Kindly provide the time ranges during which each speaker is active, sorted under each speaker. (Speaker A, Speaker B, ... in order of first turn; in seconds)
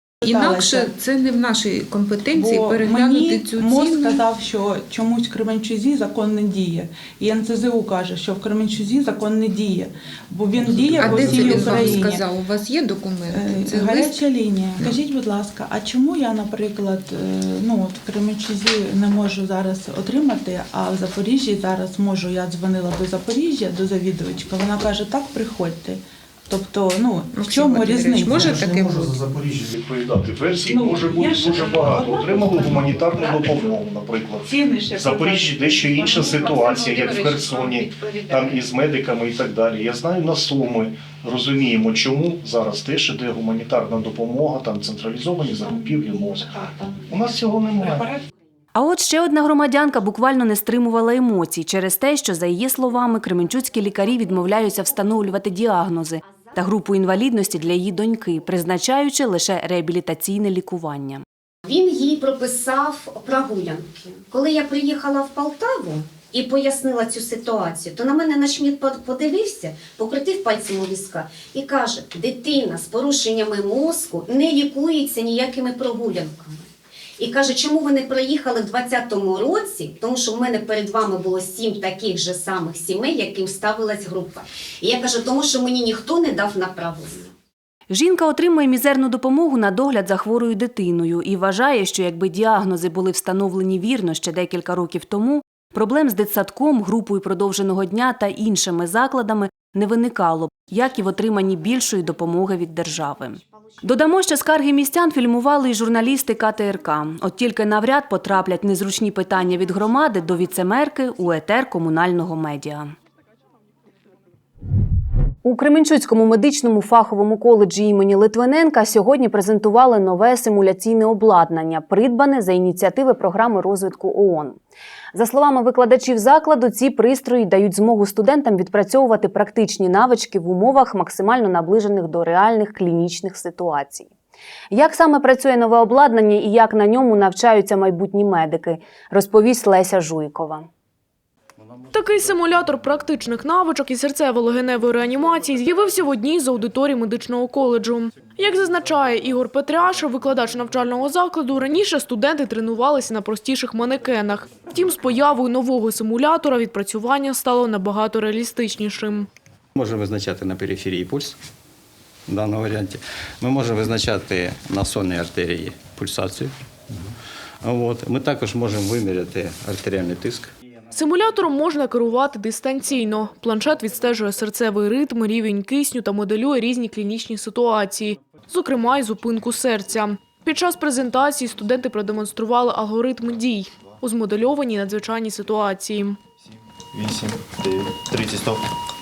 Speaker A: 0.2-4.2, 10.7-14.2, 27.3-29.2, 37.3-38.1
Speaker B: 0.3-0.9, 2.3-12.2, 13.3-28.6, 30.6-33.5, 34.5-36.5
Speaker C: 28.3-48.1
Speaker D: 48.8-61.2, 87.9-112.9, 115.4-124.6, 125.1-134.1, 134.7-140.7
Speaker E: 61.7-76.7, 77.2-87.3
Speaker F: 141.9-159.3, 170.9-186.2
Speaker G: 159.8-161.4, 162.3-167.1, 167.6-170.5, 187.7-188.4